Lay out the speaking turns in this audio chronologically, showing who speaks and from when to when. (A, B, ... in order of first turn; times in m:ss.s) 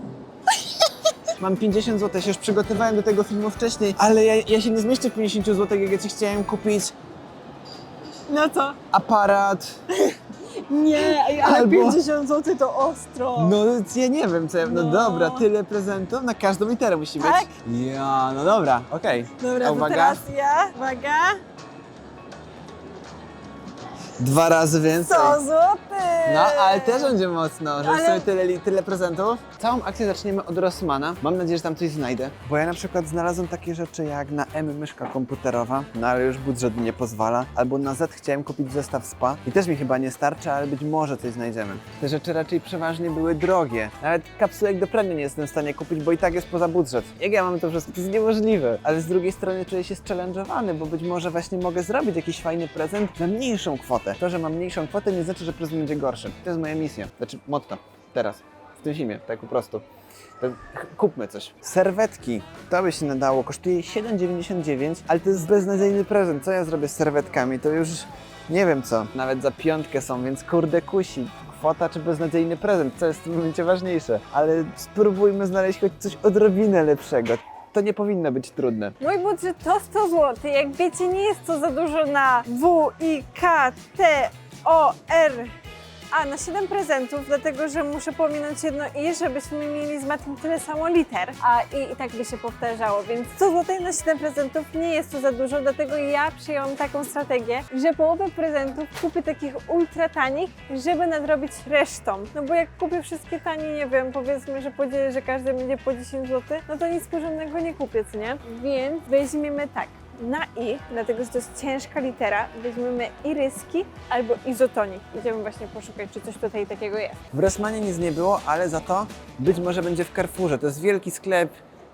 0:01.4-0:06.9 A
0:08.3-0:08.8 B
0:08.9-0:09.8 A
0:10.0-0:13.6 B
0:10.9-0:12.0 A
0:13.4-0:20.2 A
0:14.6-0:15.4 B
0:17.2-0:17.5 B
0:19.4-0:21.4 B
0:24.2-0:25.4 A
0:25.0-0:27.2 B
0:26.2-0:59.8 A
0:27.8-0:28.3 B
1:00.4-1:19.0 A
1:19.0-1:25.5 B
1:26.1-1:57.2 B
1:57.3-2:01.6 A